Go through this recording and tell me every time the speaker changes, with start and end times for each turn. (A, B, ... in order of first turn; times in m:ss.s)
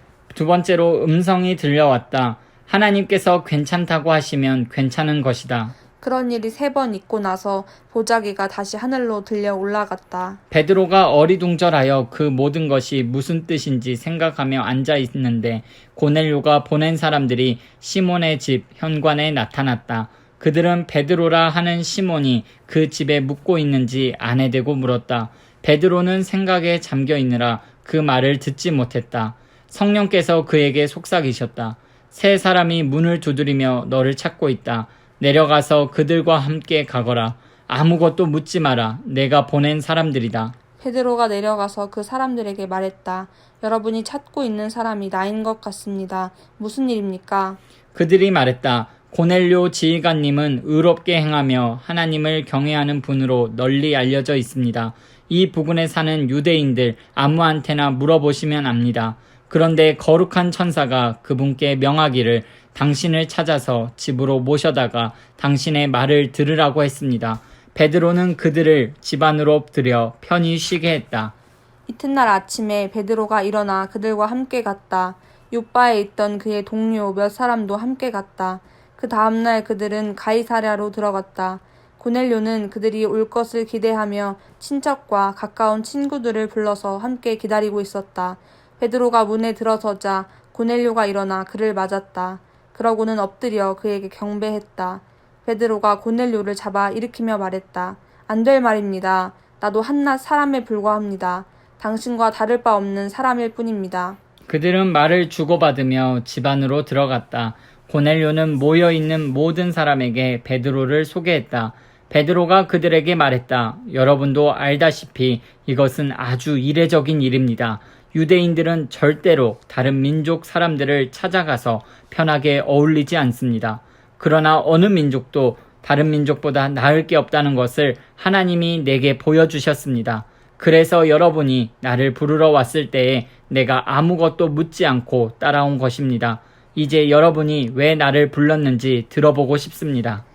0:00.3-0:05.7 A
0:06.0-0:10.4 B
0:10.5-0:40.5 A
0:40.8-0:47.6 B
0:48.0-1:11.3 A
1:11.9-1:44.2 B
1:44.5-2:20.2 A